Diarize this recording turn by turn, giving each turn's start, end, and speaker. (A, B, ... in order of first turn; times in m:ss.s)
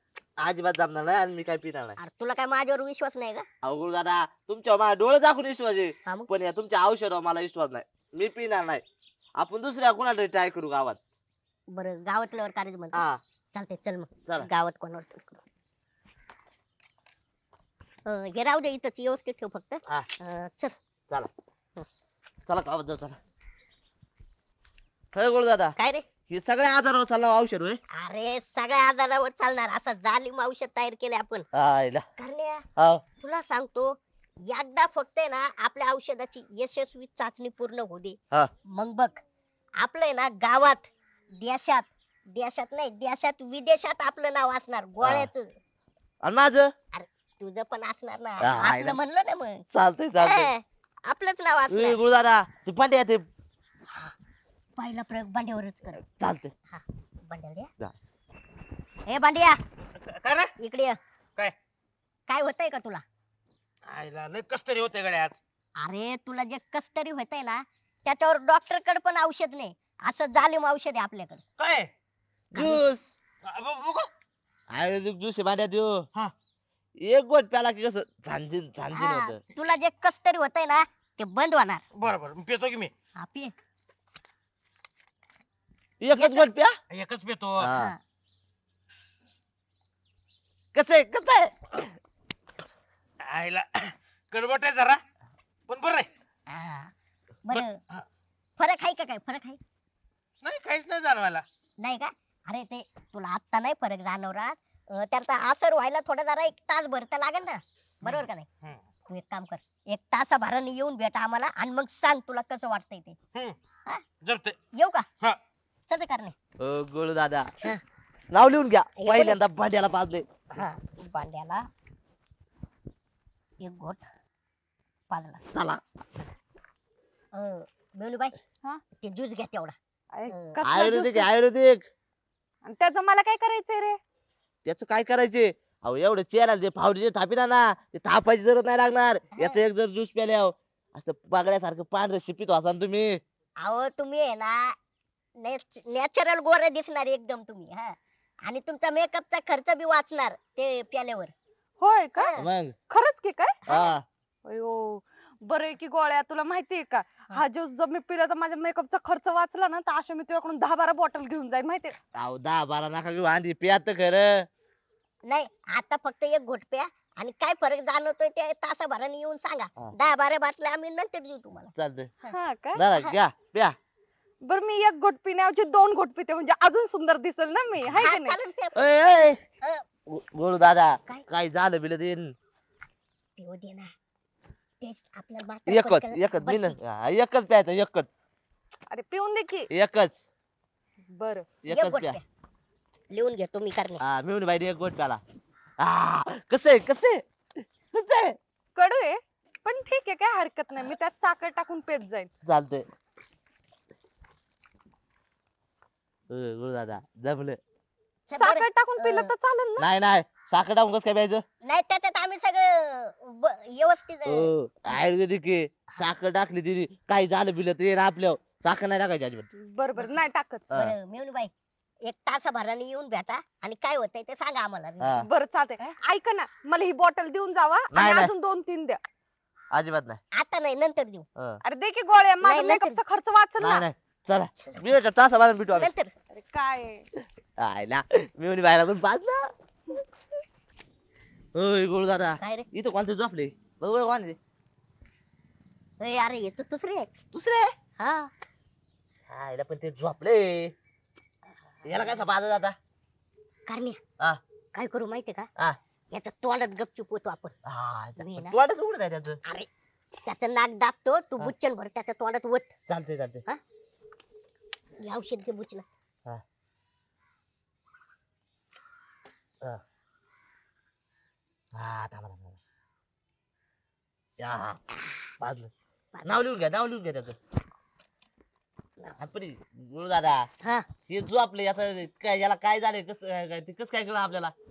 0:00.4-0:02.0 A
0:02.0-0:03.4 B
0:03.6-0:08.8 A
0:09.4-0:11.0 A
0:11.7-0:13.0 B
0:12.9-0:13.2 A
0:13.5-0:15.4 B
0:18.0-0:20.8 B
0:22.5-0:23.2 A
0:25.1-0:25.7 A
0:25.8-0:26.1 B
0:26.3-0:27.8 A
0:28.0-0:31.4 B
0:31.5-0:32.0 A
0:32.2-0:32.6 B
0:32.8-0:33.0 A
0:33.2-0:34.0 B
0:34.5-0:38.2 B
0:38.7-0:39.2 B
0:39.8-0:45.5 B
0:45.0-0:45.3 A
0:46.2-0:46.7 A
0:46.9-0:49.6 B
0:48.4-0:49.0 A
0:49.7-0:50.5 A
0:50.2-0:52.0 B
0:51.7-0:53.2 A
0:54.8-0:56.0 B
0:56.0-0:56.5 A
0:56.7-0:57.7 B
0:59.1-0:59.6 B
1:00.0-1:00.5 C
1:00.6-1:01.0 B
1:02.3-1:03.0 B
1:03.9-1:05.4 C
1:05.8-1:11.4 B
1:11.6-1:11.9 C
1:12.5-1:13.1 A
1:12.5-1:12.8 B
1:13.4-1:14.1 C
1:14.7-1:16.1 A
1:17.0-1:19.4 A
1:18.9-1:21.8 B
1:22.0-1:22.9 C
1:23.2-1:23.5 B
1:26.0-1:26.8 A
1:26.1-1:26.5 B
1:26.9-1:27.7 C
1:27.6-1:27.9 A
1:30.7-1:31.9 A
1:33.2-1:35.0 C
1:35.7-1:36.1 C
1:36.5-1:36.9 B
1:37.4-1:38.0 B
1:38.6-1:39.6 B
1:40.4-1:41.4 C
1:41.8-1:48.5 B
1:48.0-1:48.8 C
1:49.1-1:53.2 B
1:54.2-1:54.6 C
1:54.7-1:55.0 B
1:55.9-1:56.3 B
1:56.6-1:57.5 A
1:58.3-2:00.2 A
1:59.0-1:59.4 B
2:00.5-2:01.6 B
2:03.6-2:04.0 B
2:05.1-2:05.4 B
2:05.5-2:05.8 A
2:07.3-2:08.3 B
2:09.0-2:09.7 B
2:10.1-2:11.3 D
2:10.3-2:10.6 B
2:10.6-2:11.8 A
2:12.6-2:14.0 D
2:14.6-2:23.2 A
2:23.6-2:24.8 B
2:25.4-2:31.3 B
2:31.8-2:32.3 D
2:32.4-2:32.7 A
2:32.9-2:33.6 D
2:33.7-2:33.9 B
2:33.7-2:34.0 A
2:34.4-2:41.9 D
2:42.1-2:44.5 A
2:45.3-2:52.4 B
2:51.8-2:52.1 A
2:52.3-2:52.8 D
2:52.8-2:53.8 A
2:54.4-2:58.4 D
2:57.9-2:58.8 B
2:58.8-2:59.4 A
3:00.1-3:02.3 A
3:03.4-3:03.9 B
3:04.8-3:06.8 B
3:05.7-3:08.1 A
3:08.9-3:09.7 D
3:09.7-3:10.2 A
3:11.2-3:11.4 D
3:11.6-3:12.2 A
3:11.7-3:12.2 B
3:13.1-3:14.0 B
3:14.0-3:15.2 A
3:15.8-3:17.2 A
3:17.9-3:18.4 A
3:18.8-3:22.3 D
3:22.4-3:22.8 A
3:26.3-3:27.6 A
3:28.3-3:29.3 B
3:28.3-3:29.9 D
3:29.8-3:31.4 A
3:31.6-3:34.5 B
3:34.2-3:39.5 A
3:39.6-3:40.6 D
3:40.7-3:41.5 B
3:42.0-3:45.1 B
3:45.0-3:45.3 A
3:45.2-3:49.0 D
3:47.9-3:48.3 A
3:49.7-3:50.2 A
3:50.3-3:51.2 B
3:51.6-3:53.9 D
3:52.4-3:53.0 B
3:53.6-3:55.9 A
3:55.7-3:56.1 B
3:56.3-3:57.0 D
3:57.6-3:59.5 A
4:01.5-4:04.4 A
4:02.4-4:02.6 B
4:06.0-4:07.1 B
4:07.3-4:07.7 A
4:08.0-4:08.3 B
4:09.3-4:10.7 A
4:11.8-4:12.8 A
4:13.6-4:14.0 B
4:14.7-4:15.5 B
4:16.1-4:17.5 B
4:17.6-4:19.4 A
4:18.2-4:18.6 B
4:20.2-4:22.7 B
4:22.9-4:23.4 A
4:25.0-4:25.8 B
4:31.7-4:32.6 A
4:34.4-4:34.8 A
4:35.4-4:35.7 A
4:36.1-4:36.4 B
4:36.2-4:37.4 A
4:39.2-4:40.5 A
4:41.1-4:44.5 A